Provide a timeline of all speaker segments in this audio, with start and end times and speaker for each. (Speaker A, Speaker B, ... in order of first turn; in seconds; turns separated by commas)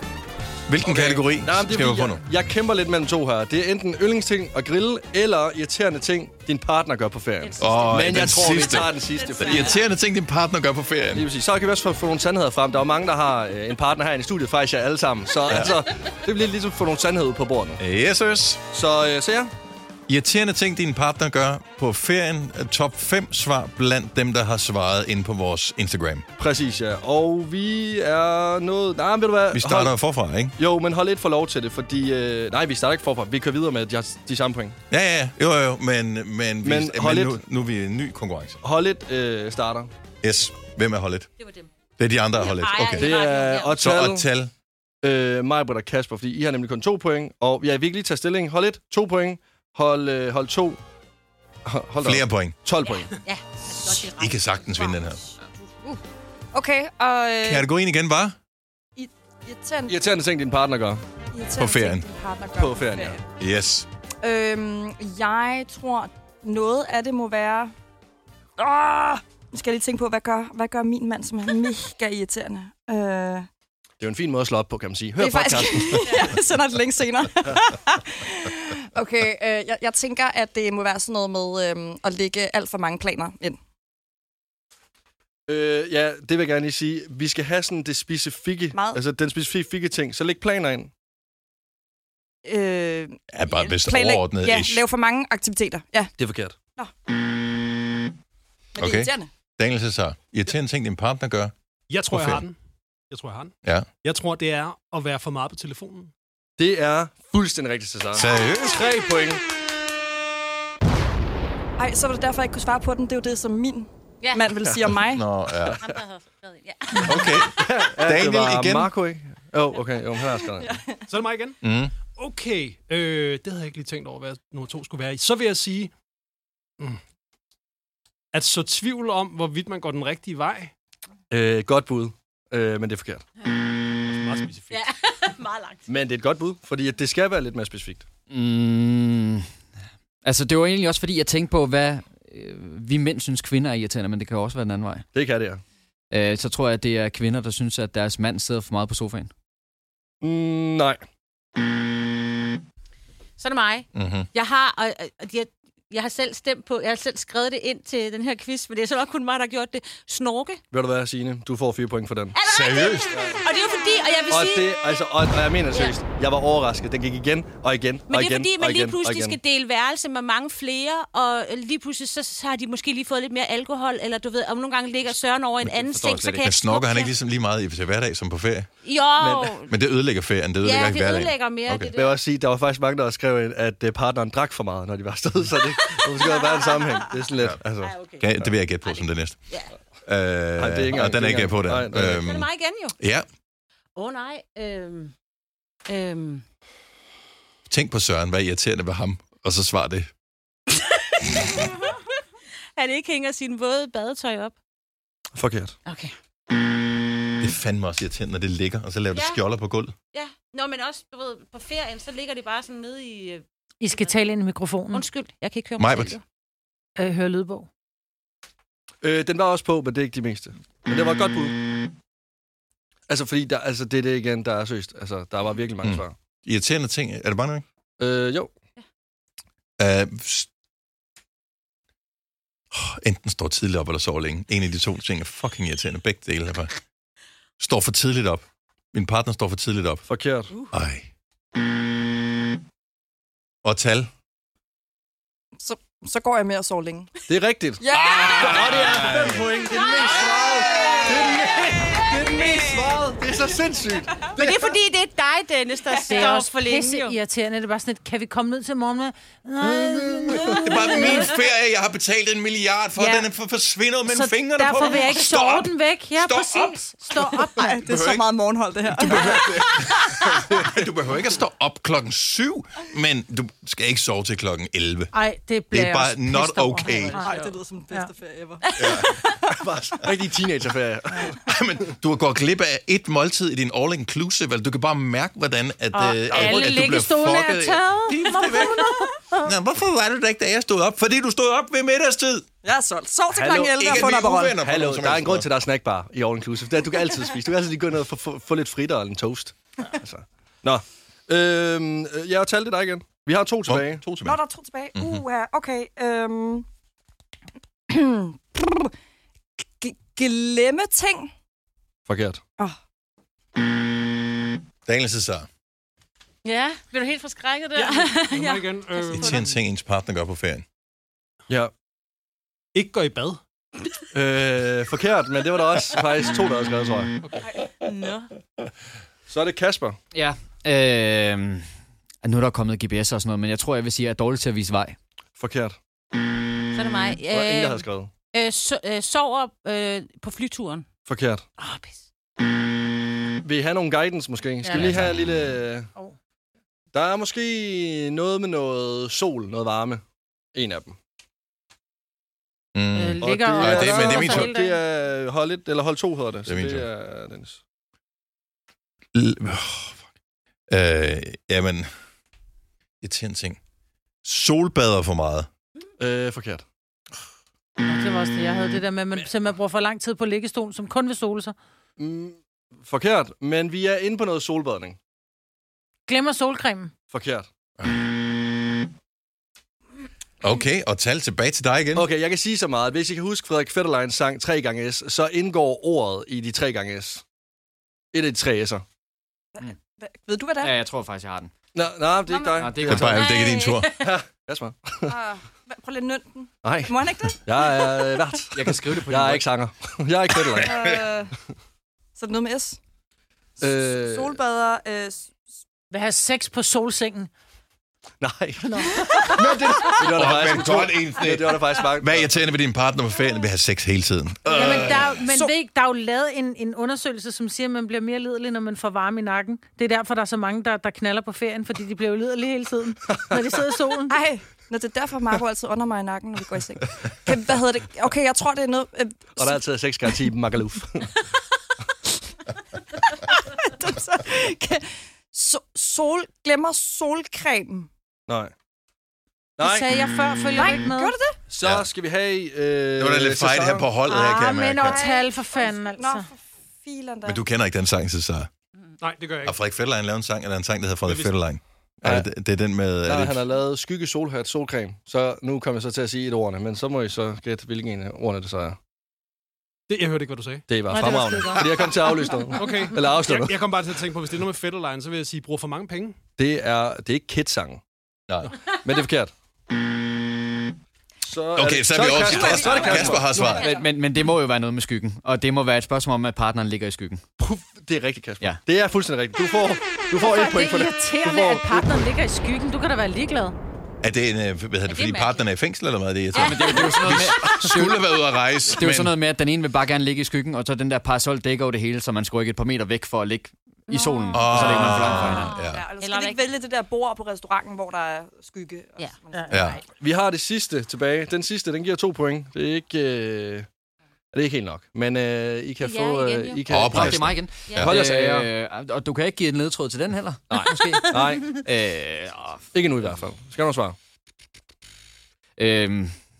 Speaker A: 0.7-2.2, Speaker B: 0.8-9.8, Speaker A: 7.6-11.3, Speaker C: 9.1-9.8, Speaker B: 11.1-17.8, Speaker A: 15.5-15.8, Speaker A: 17.8-18.6, Speaker B: 18.7-19.5, Speaker A: 20.1-26.2, Speaker B: 26.4-29.9, Speaker A: 29.5-30.6, Speaker B: 30.6-34.8, Speaker A: 34.9-38.6, Speaker B: 36.6-37.4, Speaker B: 38.6-39.9, Speaker A: 40.2-41.3, Speaker C: 41.4-41.7, Speaker A: 42.0-43.1, Speaker C: 42.4-43.7, Speaker B: 42.9-44.3, Speaker A: 43.7-44.5, Speaker B: 45.0-50.8, Speaker B: 51.6-53.1, Speaker A: 52.0-52.5, Speaker C: 52.8-55.0, Speaker A: 54.1-55.2, Speaker D: 56.5-57.7, Speaker A: 57.4-58.4, Speaker D: 59.0-60.0, Speaker B: 59.9-61.0, Speaker D: 61.3-63.2, Speaker A: 61.6-62.0, Speaker B: 62.5-63.2, Speaker A: 63.4-63.9, Speaker D: 64.2-67.7, Speaker D: 68.6-73.5, Speaker B: 74.0-76.2, Speaker D: 75.2-83.6, Speaker B: 85.5-90.9, Speaker D: 88.7-89.0, Speaker D: 92.4-96.1, Speaker A: 93.3-94.8, Speaker B: 96.2-96.5, Speaker D: 98.7-99.3, Speaker A: 98.8-101.5, Speaker E: 101.9-102.6, Speaker A: 102.1-102.4, Speaker E: 103.1-106.1, Speaker B: 106.6-109.4, Speaker A: 108.1-108.8, Speaker D: 111.8-115.2, Speaker C: 114.2-114.5, Speaker A: 114.8-115.8, Speaker C: 115.8-117.5, Speaker A: 117.0-118.9, Speaker B: 117.5-120.8, Speaker D: 120.6-121.0, Speaker E: 121.1-121.6, Speaker A: 121.6-121.9, Speaker E: 122.1-125.9, Speaker E: 128.3-130.7, Speaker B: 131.3-133.2, Speaker E: 134.0-134.8, Speaker C: 134.7-135.8, Speaker B: 135.9-138.1, Speaker F: 138.3-139.5, Speaker F: 140.2-145.1, Speaker B: 145.1-145.6, Speaker F: 146.1-149.3, Speaker B: 150.2-151.0, Speaker C: 153.4-160.6, Speaker A: 153.9-154.3, Speaker B: 160.7-162.3, Speaker C: 162.3-165.0, Speaker A: 162.4-163.1, Speaker B: 163.1-163.4, Speaker B: 164.3-169.4, Speaker C: 168.1-177.1, Speaker F: 175.8-176.4, Speaker A: 176.4-178.7, Speaker C: 178.8-179.7, Speaker B: 179.2-179.6, Speaker A: 179.7-181.9, Speaker C: 180.6-182.2, Speaker B: 181.9-188.0, Speaker C: 186.2-186.8, Speaker C: 187.8-188.2, Speaker A: 188.2-189.4, Speaker C: 188.8-189.7, Speaker A: 190.1-193.2, Speaker B: 190.6-192.3, Speaker C: 192.1-192.9, Speaker C: 193.9-195.1, Speaker C: 195.9-196.4, Speaker A: 197.7-200.1, Speaker C: 200.7-202.0, Speaker C: 202.8-204.5, Speaker B: 205.3-205.7, Speaker C: 205.8-206.1, Speaker A: 207.4-209.9, Speaker C: 209.1-209.4, Speaker C: 210.1-214.1, Speaker G: 213.8-215.0, Speaker C: 214.9-216.2, Speaker A: 215.8-216.2, Speaker G: 217.0-217.7, Speaker B: 219.0-221.6, Speaker B: 223.1-226.1, Speaker A: 225.8-227.6, Speaker B: 228.0-228.5, Speaker A: 229.8-230.5, Speaker A: 232.7-236.7, Speaker A: 237.6-240.1, Speaker B: 240.1-240.5, Speaker A: 240.7-241.1, Speaker A: 243.6-244.1, Speaker D: 245.6-247.2, Speaker B: 247.3-254.7, Speaker D: 247.8-249.1, Speaker A: 247.9-249.4, Speaker D: 252.0-253.0, Speaker C: 254.3-257.1, Speaker G: 256.1-261.3, Speaker A: 260.4-267.3, Speaker G: 263.0-263.3, Speaker G: 264.1-267.8, Speaker D: 267.5-270.4, Speaker A: 267.8-268.2, Speaker A: 268.9-275.1, Speaker G: 275.1-278.1, Speaker A: 275.7-277.2, Speaker D: 276.9-279.5, Speaker A: 278.8-279.1, Speaker C: 278.8-279.1, Speaker B: 279.5-281.4, Speaker A: 281.4-288.9, Speaker G: 285.9-289.5, Speaker B: 286.4-286.7, Speaker A: 289.4-292.4, Speaker D: 292.6-294.6, Speaker B: 293.3-294.0, Speaker A: 293.8-295.5, Speaker B: 294.6-304.0, Speaker A: 303.7-304.4, Speaker D: 304.2-306.6, Speaker A: 304.9-305.2, Speaker D: 307.9-308.9, Speaker D: 309.6-311.3, Speaker B: 312.1-312.4, Speaker A: 314.9-315.5, Speaker C: 316.4-319.4, Speaker E: 318.2-319.4, Speaker A: 319.1-320.6, Speaker E: 322.7-323.4, Speaker B: 324.1-327.1, Speaker C: 327.8-328.3, Speaker B: 329.3-330.0, Speaker F: 330.1-331.7, Speaker F: 332.2-335.0, Speaker B: 335.4-335.8, Speaker C: 336.7-340.9, Speaker B: 337.3-338.1, Speaker B: 341.1-341.4, Speaker B: 343.4-345.9, Speaker G: 344.6-344.9, Speaker A: 344.7-345.5, Speaker B: 346.9-350.0, Speaker B: 350.5-350.9, Speaker A: 352.7-354.5, Speaker G: 352.9-354.8, Speaker B: 353.2-357.6, Speaker A: 356.4-356.9, Speaker A: 359.1-359.9, Speaker A: 360.7-361.9, Speaker A: 363.0-363.6, Speaker A: 364.2-365.5, Speaker B: 366.0-366.6, Speaker G: 367.8-371.6, Speaker B: 372.0-375.0, Speaker G: 376.1-376.9, Speaker B: 377.1-377.5, Speaker A: 380.4-382.1, Speaker B: 381.9-387.2, Speaker B: 388.1-388.8, Speaker D: 389.5-390.8, Speaker F: 390.6-391.5, Speaker B: 391.7-393.1, Speaker D: 392.3-392.8, Speaker F: 392.5-393.3, Speaker A: 392.8-393.9, Speaker C: 392.9-394.1, Speaker B: 393.9-395.1, Speaker D: 395.1-398.2, Speaker B: 396.6-400.9, Speaker F: 398.5-399.4, Speaker A: 400.6-400.9, Speaker D: 400.6-401.3, Speaker D: 402.2-402.8, Speaker B: 403.6-404.4, Speaker D: 403.6-405.3, Speaker G: 405.9-407.3, Speaker B: 408.2-412.3, Speaker G: 408.6-409.4, Speaker A: 409.5-415.2, Speaker G: 414.5-424.2, Speaker B: 414.5-415.0, Speaker D: 424.1-429.6, Speaker B: 429.4-431.1, Speaker D: 433.1-437.9, Speaker B: 439.6-439.9, Speaker G: 439.6-441.1, Speaker D: 440.5-441.4, Speaker B: 441.5-443.9, Speaker A: 441.6-441.9, Speaker A: 443.0-445.0, Speaker G: 444.1-446.3, Speaker D: 444.9-447.4, Speaker A: 447.2-448.5, Speaker E: 449.0-449.6, Speaker A: 449.4-453.4, Speaker E: 451.0-451.4, Speaker B: 453.0-458.8, Speaker E: 459.9-460.6, Speaker B: 460.7-463.5, Speaker G: 460.9-462.1, Speaker E: 462.5-466.2, Speaker B: 466.4-467.8, Speaker B: 468.8-469.3, Speaker B: 471.2-473.9, Speaker A: 471.6-473.7, Speaker D: 472.1-473.8, Speaker F: 473.6-477.2, Speaker B: 477.4-482.1, Speaker G: 480.1-483.6, Speaker A: 484.0-489.1, Speaker C: 484.9-485.4, Speaker C: 486.3-487.2, Speaker F: 486.3-488.1, Speaker F: 488.7-495.6, Speaker C: 493.9-496.4, Speaker A: 494.3-495.8, Speaker D: 494.3-499.5, Speaker G: 499.3-499.8, Speaker A: 499.5-499.8, Speaker B: 499.9-503.7, Speaker B: 504.3-508.5, Speaker C: 505.8-506.6, Speaker A: 506.7-508.0, Speaker F: 506.7-512.7, Speaker B: 510.5-511.6, Speaker B: 512.7-514.0, Speaker F: 515.6-516.1